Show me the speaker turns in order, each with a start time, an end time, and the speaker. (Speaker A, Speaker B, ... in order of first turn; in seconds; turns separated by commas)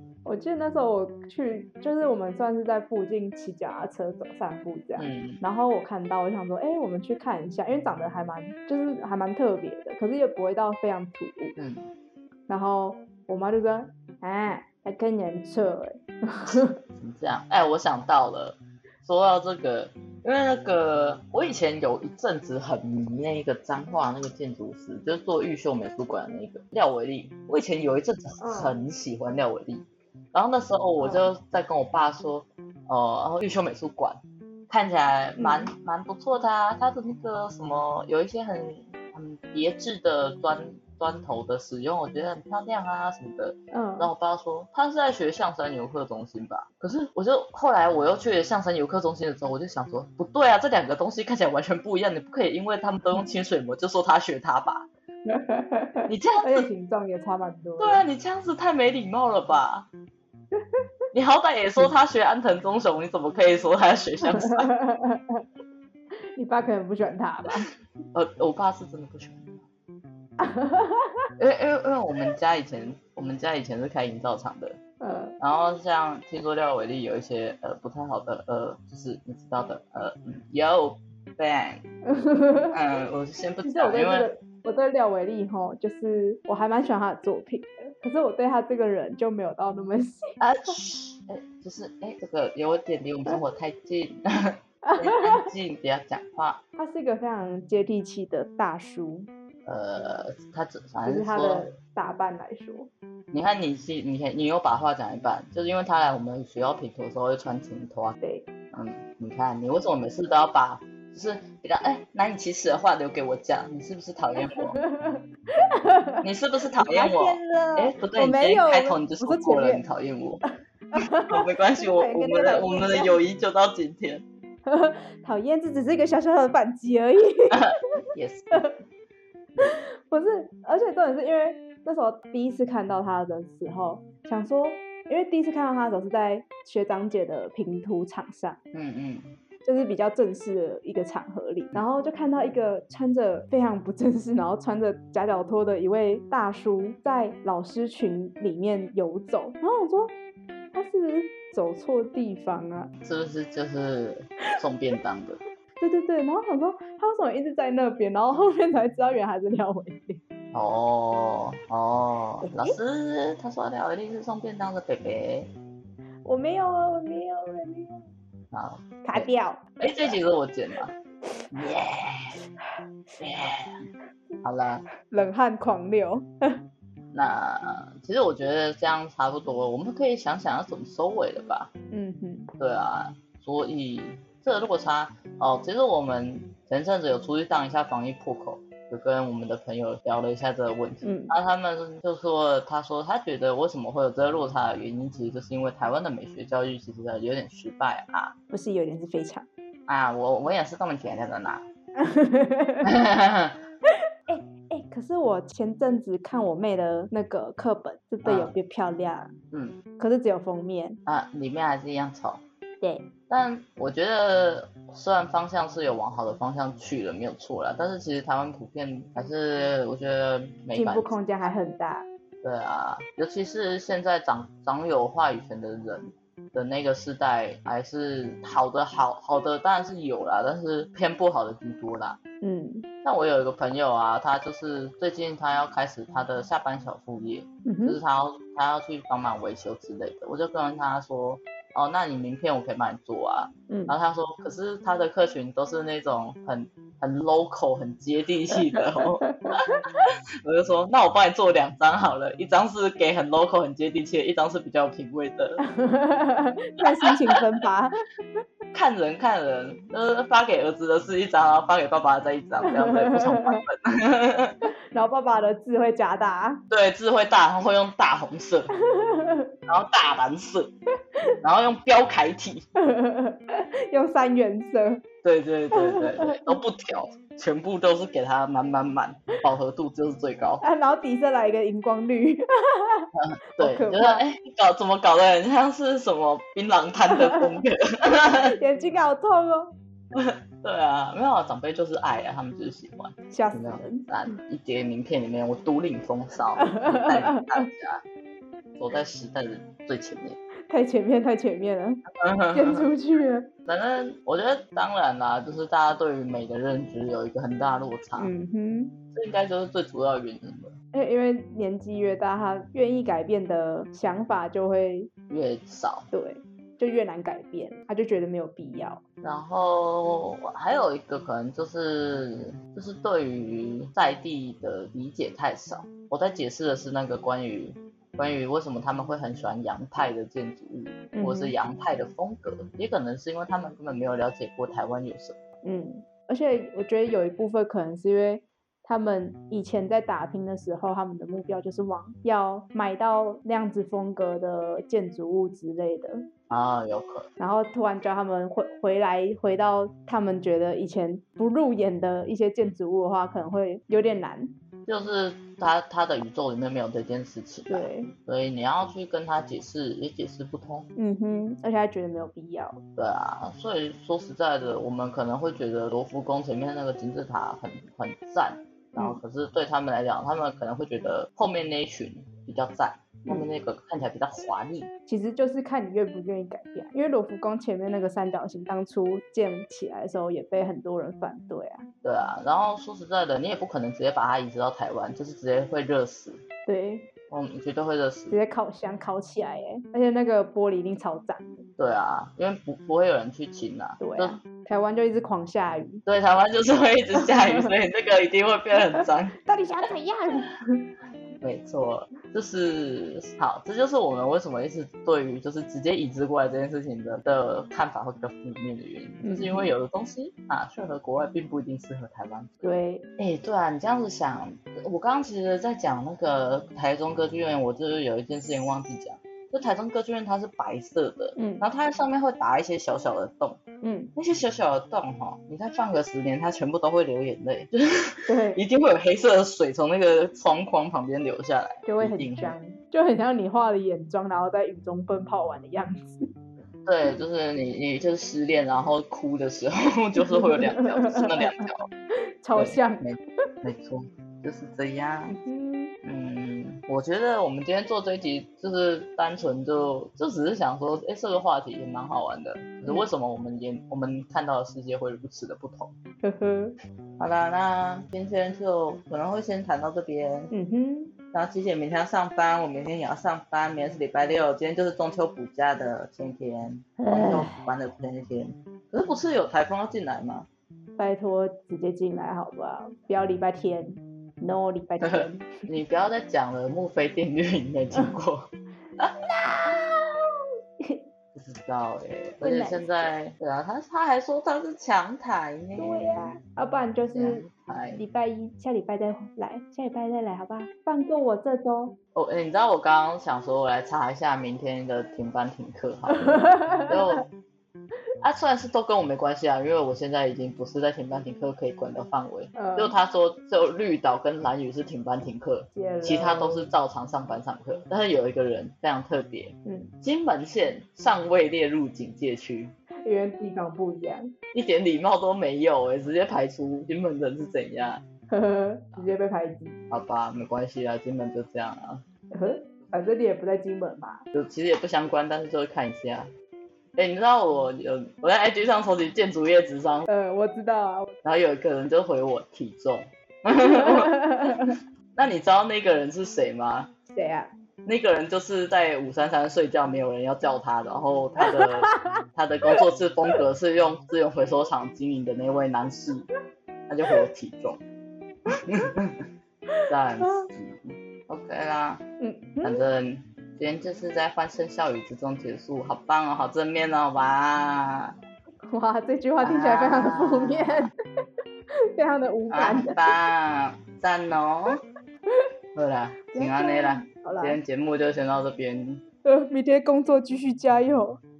Speaker A: 0.2-11.6, Speaker B: 5.0-5.4, Speaker B: 11.6-11.9, Speaker A: 12.5-16.8, Speaker B: 16.9-54.9, Speaker A: 28.4-28.7, Speaker A: 31.0-31.3, Speaker A: 35.4-35.7, Speaker A: 43.7-44.1, Speaker A: 55.3-58.0, Speaker B: 56.1-56.6, Speaker B: 57.8-59.9, Speaker B: 61.1-64.7, Speaker A: 64.2-65.4, Speaker A: 66.3-67.7, Speaker B: 68.1-69.6, Speaker A: 70.4-71.2, Speaker B: 71.4-74.8, Speaker A: 75.0-75.3, Speaker B: 75.4-81.9, Speaker A: 82.0-82.8, Speaker B: 82.7-84.3, Speaker A: 83.6-90.7, Speaker B: 90.4-96.6, Speaker A: 94.8-95.4, Speaker A: 96.8-99.3, Speaker B: 99.7-101.7, Speaker A: 101.0-102.9, Speaker B: 103.3-108.2, Speaker A: 108.2-108.5, Speaker B: 108.7-114.8, Speaker A: 114.5-116.2, Speaker B: 116.2-120.4, Speaker A: 116.8-119.8, Speaker A: 120.9-123.2, Speaker B: 121.0-124.2, Speaker A: 124.7-127.7, Speaker B: 127.5-128.7, Speaker A: 129.6-138.6, Speaker B: 138.7-139.3, Speaker A: 139.6-150.1, Speaker A: 150.7-152.9, Speaker B: 153.0-155.4, Speaker A: 155.8-160.2, Speaker B: 160.5-165.5, Speaker A: 162.4-162.8, Speaker A: 166.2-168.0, Speaker B: 168.5-169.3, Speaker A: 169.0-170.2, Speaker B: 169.8-170.9, Speaker B: 171.5-172.4, Speaker B: 173.2-173.8, Speaker B: 174.4-174.8, Speaker A: 175.0-176.3, Speaker B: 177.1-181.7, Speaker A: 181.9-182.5, Speaker B: 182.6-198.3, Speaker A: 191.0-191.3, Speaker A: 198.5-199.5, Speaker B: 199.9-201.7, Speaker A: 202.0-202.9, Speaker B: 202.8-203.6, Speaker A: 204.3-209.3, Speaker B: 208.2-208.5, Speaker B: 209.5-209.8, Speaker A: 210.0-211.0, Speaker B: 211.1-212.4, Speaker A: 212.8-213.1, Speaker B: 213.3-221.2, Speaker A: 220.7-222.1, Speaker B: 222.4-232.2, Speaker A: 232.4-232.9, Speaker B: 233.0-249.6, Speaker A: 237.6-238.0, Speaker A: 243.7-243.9, Speaker A: 248.7-250.1, Speaker B: 250.4-255.6, Speaker A: 255.7-257.9, Speaker B: 256.8-257.1, Speaker B: 258.7-264.7, Speaker A: 262.6-263.6, Speaker A: 264.9-266.6, Speaker B: 266.7-268.7, Speaker A: 268.8-269.5, Speaker B: 269.7-270.7, Speaker B: 271.4-272.6, Speaker A: 272.8-275.0, Speaker B: 275.2-280.6, Speaker A: 275.7-276.6, Speaker A: 280.6-284.2, Speaker B: 283.1-288.6, Speaker A: 287.1-287.4, Speaker A: 288.5-289.7, Speaker B: 290.1-298.0, Speaker A: 293.3-294.1, Speaker A: 296.6-297.7, Speaker B: 298.8-300.4, Speaker A: 300.7-302.0, Speaker B: 302.2-302.9, Speaker A: 302.5-303.5, Speaker B: 303.6-308.3, Speaker A: 308.2-308.9, Speaker B: 309.1-310.7, Speaker A: 310.9-315.1, Speaker B: 315.3-316.1, Speaker A: 316.1-319.0, Speaker B: 319.2-335.4, Speaker A: 331.1-331.5, Speaker A: 335.6-346.2, Speaker B: 346.5-347.3, Speaker A: 347.4-354.5, Speaker B: 354.9-360.9, Speaker A: 357.7-358.1, Speaker A: 361.0-362.8, Speaker B: 362.9-374.9, Speaker A: 375.1-381.9, Speaker B: 382.0-386.4, Speaker A: 386.6-387.1, Speaker B: 387.3-388.4, Speaker A: 388.3-391.7, Speaker B: 391.8-394.4, Speaker A: 394.0-396.0, Speaker B: 396.0-399.4, Speaker A: 397.1-397.7, Speaker A: 398.7-400.8, Speaker B: 401.4-423.6, Speaker A: 409.2-409.7, Speaker A: 412.6-413.0, Speaker A: 421.4-421.6, Speaker A: 423.8-424.1, Speaker B: 424.1-432.5, Speaker A: 428.3-428.6, Speaker A: 431.9-436.3, Speaker B: 436.9-441.9, Speaker A: 440.2-441.6, Speaker A: 442.4-443.0, Speaker B: 442.5-445.4, Speaker A: 445.3-445.9, Speaker B: 446.0-455.9, Speaker A: 456.2-456.8, Speaker B: 457.2-460.5, Speaker A: 460.5-461.1, Speaker B: 461.3-470.5, Speaker A: 467.0-467.6, Speaker A: 471.0-475.6, Speaker B: 475.0-479.8, Speaker A: 479.6-480.0, Speaker B: 481.3-486.4, Speaker A: 482.4-483.1, Speaker A: 485.8-487.4, Speaker B: 487.1-488.0, Speaker A: 487.9-491.9, Speaker B: 492.1-497.3, Speaker A: 496.1-497.0, Speaker B: 498.2-512.7, Speaker A: 502.6-502.9, Speaker A: 505.7-506.7, Speaker A: 509.6-509.9, Speaker A: 513.0-514.3, Speaker B: 514.5-518.0, Speaker A: 518.3-519.8, Speaker B: 519.9-522.0, Speaker A: 522.3-524.2, Speaker B: 524.3-526.3, Speaker B: 527.0-530.1, Speaker A: 530.1-531.1, Speaker B: 531.2-536.9, Speaker A: 533.5-534.7, Speaker A: 537.1-537.5, Speaker B: 537.9-546.3, Speaker A: 541.4-542.8, Speaker B: 546.9-547.8, Speaker B: 548.5-549.3, Speaker A: 549.7-550.5, Speaker B: 549.9-552.0, Speaker A: 552.2-552.8, Speaker B: 552.6-558.1, Speaker A: 558.7-560.9, Speaker B: 559.4-560.9, Speaker A: 561.9-563.1, Speaker B: 562.5-564.8, Speaker B: 565.7-569.0, Speaker A: 566.3-567.6, Speaker A: 569.2-571.2